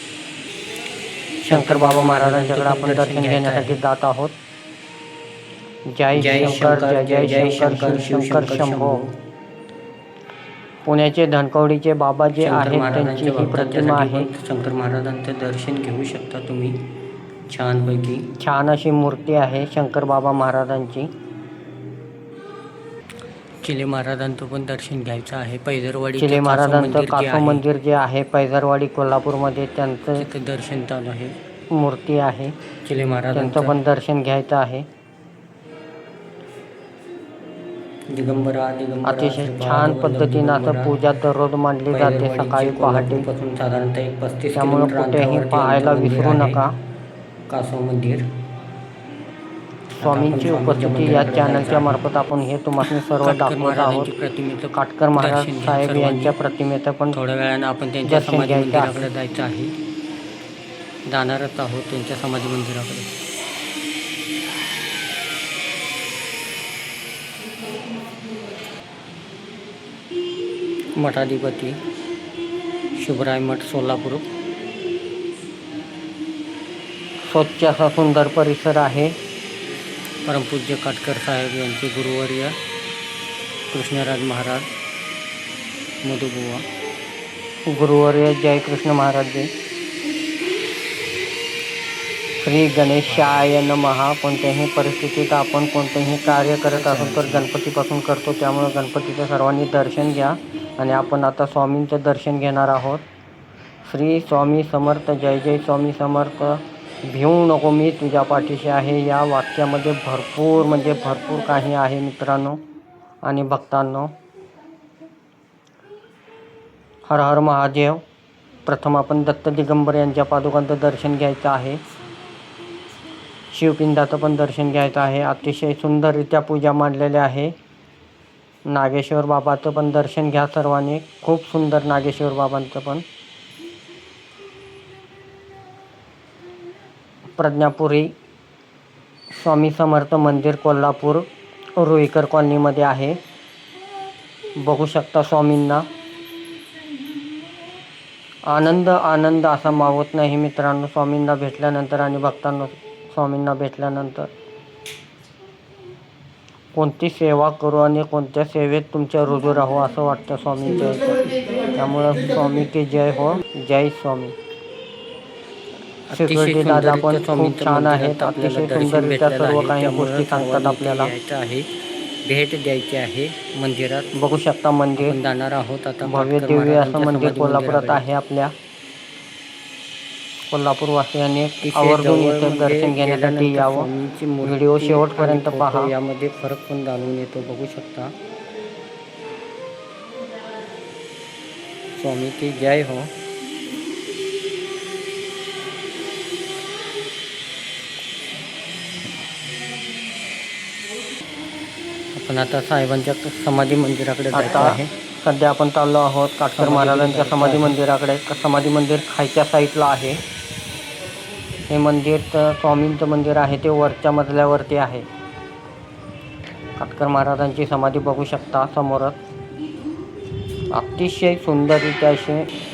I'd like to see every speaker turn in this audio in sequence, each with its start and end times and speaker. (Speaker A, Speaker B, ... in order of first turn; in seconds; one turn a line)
Speaker A: 1.4-3.8
Speaker B: 1.5-4.3
Speaker B: 5.9-9.0
Speaker A: 6.1-9.1
Speaker B: 10.8-14.3
Speaker A: 12.3-16.9
Speaker A: 17.5-18.3
Speaker B: 18.4-21.1
Speaker A: 23.6-27.6
Speaker B: 26.2-30.3
Speaker A: 30.1-31.4
Speaker B: 31.7-32.5
Speaker A: 32.8-33.8
Speaker B: 33.3-34.9
Speaker A: 38.1-41.0
Speaker B: 39.0-43.3
Speaker A: 41.9-46.6
Speaker B: 44.5-46.7
Speaker A: 47.5-48.3
Speaker A: 50.0-52.0
Speaker B: 50.0-54.1
Speaker A: 52.8-56.3
Speaker B: 54.7-57.2
Speaker A: 57.1-59.7
Speaker B: 58.0-59.1
Speaker A: 61.1-63.1
Speaker A: 71.0-71.8
Speaker A: 72.9-74.2
Speaker B: 77.2-79.2
Speaker A: 80.2-82.6
Speaker A: 83.7-84.7
Speaker A: 86.0-86.7
Speaker B: 87.7-89.5
Speaker B: 92.4-103.0
Speaker A: 96.7-97.5
Speaker B: 103.8-112.6
Speaker B: 113.2-114.2
Speaker B: 117.1-118.0
Speaker B: 118.6-121.8
Speaker B: 123.5-127.5
Speaker B: 128.7-133.0
Speaker B: 137.4-138.1
Speaker B: 139.3-141.3
Speaker B: 141.8-143.2
Speaker B: 144.6-145.8
Speaker B: 148.5-154.3
Speaker B: 156.7-164.3
Speaker A: 166.1-171.7
Speaker B: 166.1-171.1
Speaker A: 172.2-174.1
Speaker B: 174.1-175.2
Speaker A: 175.0-178.1
Speaker B: 176.0-178.5
Speaker B: 180.5-183.9
Speaker A: 181.6-188.1
Speaker B: 184.4-185.9
Speaker A: 192.0-193.1
Speaker A: 202.1-204.9
Speaker B: 204.3-210.2
Speaker A: 206.6-207.8
Speaker B: 211.7-215.1
Speaker B: 216.8-219.2
Speaker B: 220.7-222.5